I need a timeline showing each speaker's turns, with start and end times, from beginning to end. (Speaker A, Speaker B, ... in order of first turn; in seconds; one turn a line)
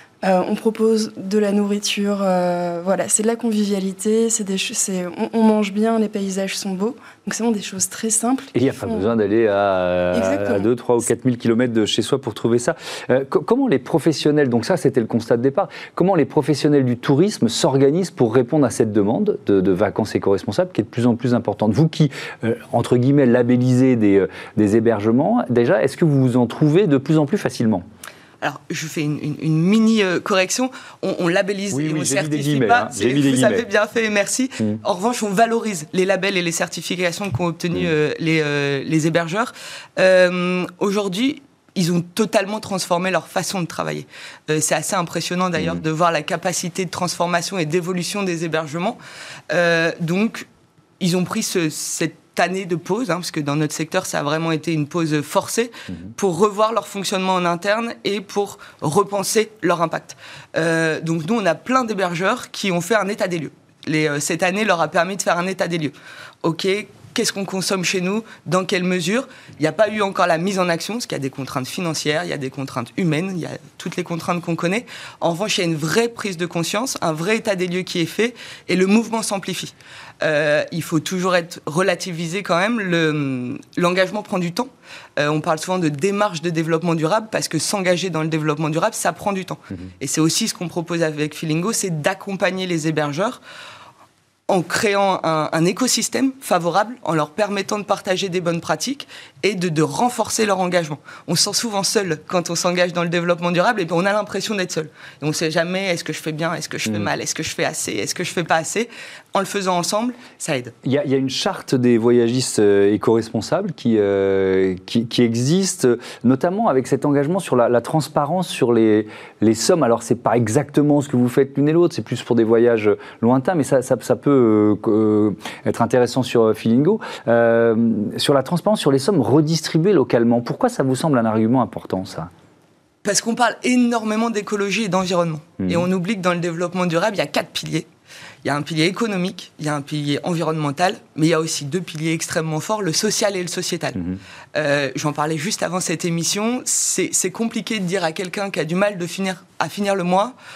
Speaker A: 0.2-9.0
Speaker B: 8.5-27.8
Speaker A: 10.1-10.7
Speaker C: 28.4-49.0
Speaker B: 31.7-33.6
Speaker B: 45.6-45.8
Speaker C: 49.5-50.5
Speaker C: 51.0-93.4
Speaker C: 94.5-110.7
Speaker B: 110.8-132.3
Speaker C: 133.0-137.9
Speaker C: 138.4-144.0
Speaker B: 143.9-144.2
Speaker C: 144.5-150.3